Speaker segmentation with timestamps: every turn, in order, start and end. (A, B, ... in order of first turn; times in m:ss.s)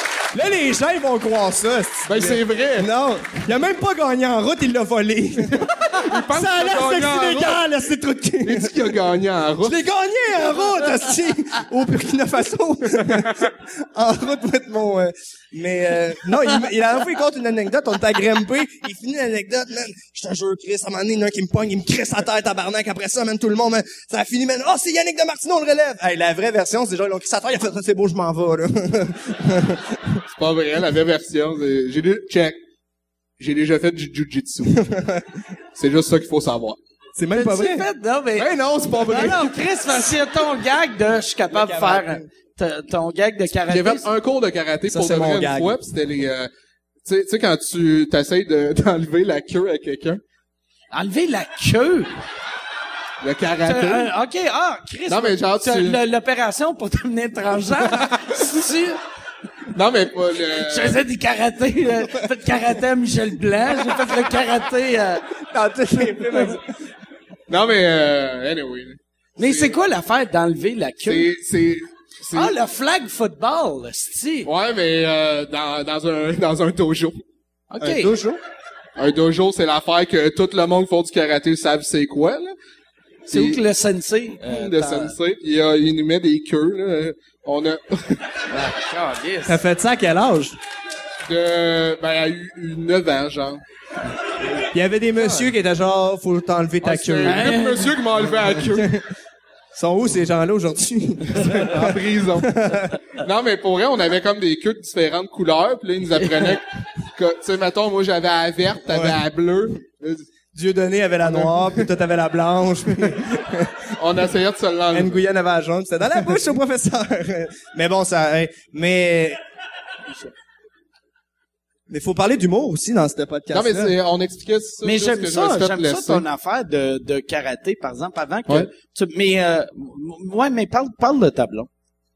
0:00.3-0:08.8 A
0:02.1-0:02.9 B
0:05.5-0:07.6 B
0:08.4-0:09.8 B
0:09.6-0:30.2 A
0:30.4-0:32.6 B
0:33.4-0:34.9 B
0:34.8-0:35.2 A
0:35.8-0:36.8 B
0:37.2-0:37.9 A
0:37.3-0:44.0 C
0:38.4-0:39.6 B
0:41.5-0:42.3 A
0:43.7-0:46.5 B
0:44.9-0:45.8 A
0:47.0-0:50.2 B
0:50.9-0:52.1 C
0:53.2-0:54.1 B
0:53.6-0:59.0 C
0:55.1-0:56.0 B
0:57.9-0:58.2 B
0:59.7-1:01.0 B
1:00.6-1:05.2 C
1:05.5-1:06.6 A
1:07.5-1:09.7 B
1:09.4-1:11.3 C
1:11.0-1:12.6 B
1:12.3-1:14.5 C
1:14.4-1:17.2 B
1:17.7-1:18.1 C
1:17.8-1:18.4 A
1:19.0-1:22.5 B
1:23.3-1:23.6 B
1:23.3-1:25.1 C
1:24.4-1:28.2 B
1:28.5-1:29.6 C
1:29.4-1:30.6 A
1:31.3-1:33.6 B
1:34.7-1:37.6 A
1:36.8-1:39.0 B
1:37.2-1:37.9 C
1:38.3-1:39.0 A
1:39.7-1:42.9 A
1:41.4-1:42.6 B
1:43.1-1:46.6 B
1:47.2-1:50.3 B
1:48.9-1:49.2 A
1:50.5-1:53.8 A
1:51.2-1:51.9 B
1:54.0-1:55.2 B
1:54.9-1:59.4 A
2:01.9-2:03.9 A
2:03.5-2:06.2 B
2:04.8-2:11.7 C